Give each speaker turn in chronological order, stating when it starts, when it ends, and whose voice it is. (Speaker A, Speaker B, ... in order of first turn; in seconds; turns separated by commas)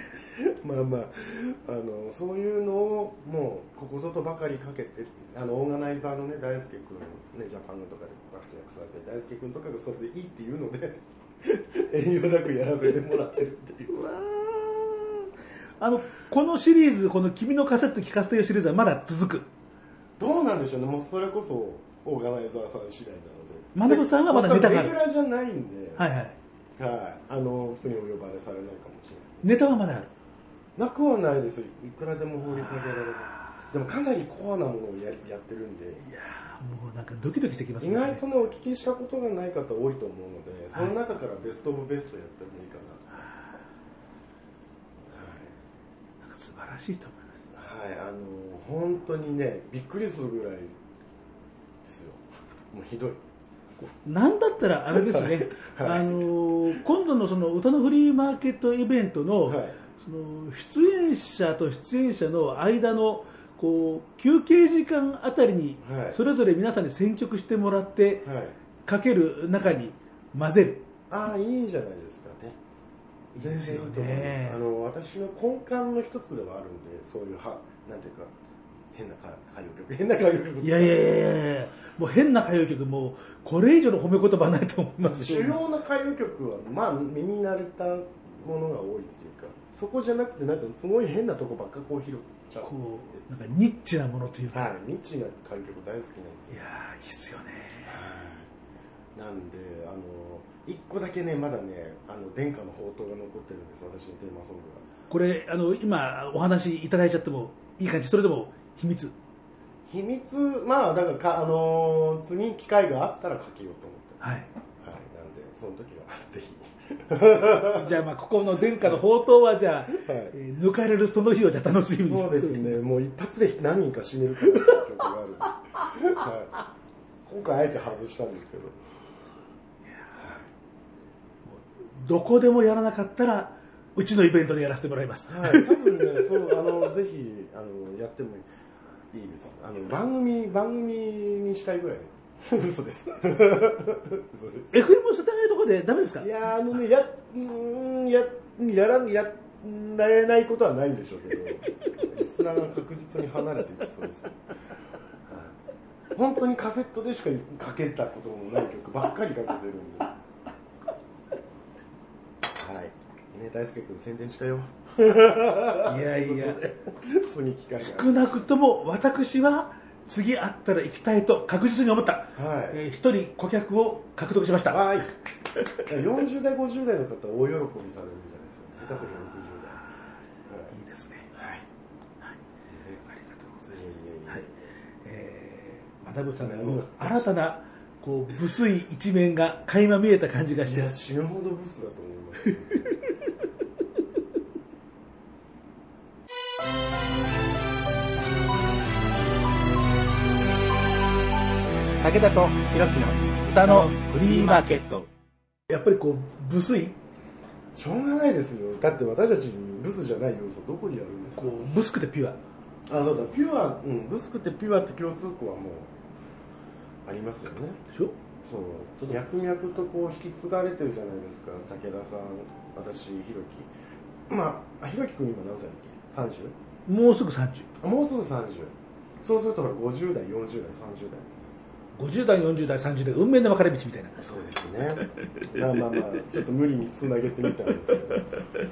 Speaker A: 0.3-14.2, Speaker B: 14.1-15.2, Speaker B: 15.8-19.5, Speaker A: 20.2-26.1, Speaker B: 23.8-25.0, Speaker B: 26.0-26.4, Speaker A: 26.8-29.5, Speaker B: 29.4-30.1, Speaker A: 30.8-36.0, Speaker B: 32.5-33.0, Speaker B: 36.0-38.2, Speaker A: 37.8-43.2, Speaker A: 45.1-45.5, Speaker B: 46.2-47.4, Speaker A: 47.5-50.8, Speaker A: 51.8-53.2, Speaker B: 53.8-68.3, Speaker A: 54.9-56.3, Speaker A: 59.5-59.8, Speaker A: 65.8-66.2, Speaker A: 68.2-68.6, Speaker B: 68.8-70.8, Speaker A: 71.1-72.6, Speaker B: 73.3-74.6, Speaker A: 73.3-78.3, Speaker A: 78.9-81.1, Speaker B: 80.6-85.6, Speaker A: 85.0-93.2, Speaker B: 92.6-94.7, Speaker A: 94.5-96.6, Speaker B: 96.5-97.9, Speaker A: 97.8-98.5, Speaker A: 99.2-104.9, Speaker B: 105.1-109.2, Speaker A: 109.9-114.2, Speaker B: 114.2-114.5, Speaker A: 114.8-118.0, Speaker B: 117.7-123.0, Speaker A: 119.9-120.3, Speaker A: 122.0-126.6, Speaker A: 127.3-128.8, Speaker A: 130.1-130.5, Speaker B: 131.5-136.7, Speaker A: 135.3-138.5, Speaker A: 139.1-144.9, Speaker B: 144.7-146.3, Speaker A: 146.2-154.4, Speaker A: 155.3-155.6, Speaker A: 156.2-160.1, Speaker A: 162.5-168.5, Speaker B: 165.8-166.7, Speaker B: 167.8-174.9, Speaker A: 172.3-172.8, Speaker A: 174.7-175.1, Speaker A: 175.9-179.8, Speaker A: 180.5-180.7, Speaker B: 180.7-181.3, Speaker A: 181.3-181.7, Speaker A: 182.7-183.0, Speaker B: 183.1-184.5, Speaker A: 183.7-184.5, Speaker B: 185.0-190.9, Speaker A: 186.4-187.3, Speaker A: 190.7-192.9, Speaker C: 202.0-205.1, Speaker B: 203.4-204.9, Speaker B: 205.7-207.0, Speaker A: 207.7-211.6, Speaker B: 211.4-212.4, Speaker A: 212.9-215.9, Speaker A: 217.1-217.8, Speaker A: 218.5-223.7, Speaker A: 224.3-226.6, Speaker B: 226.9-227.7, Speaker A: 227.8-231.5, Speaker B: 232.0-234.2, Speaker A: 234.2-238.3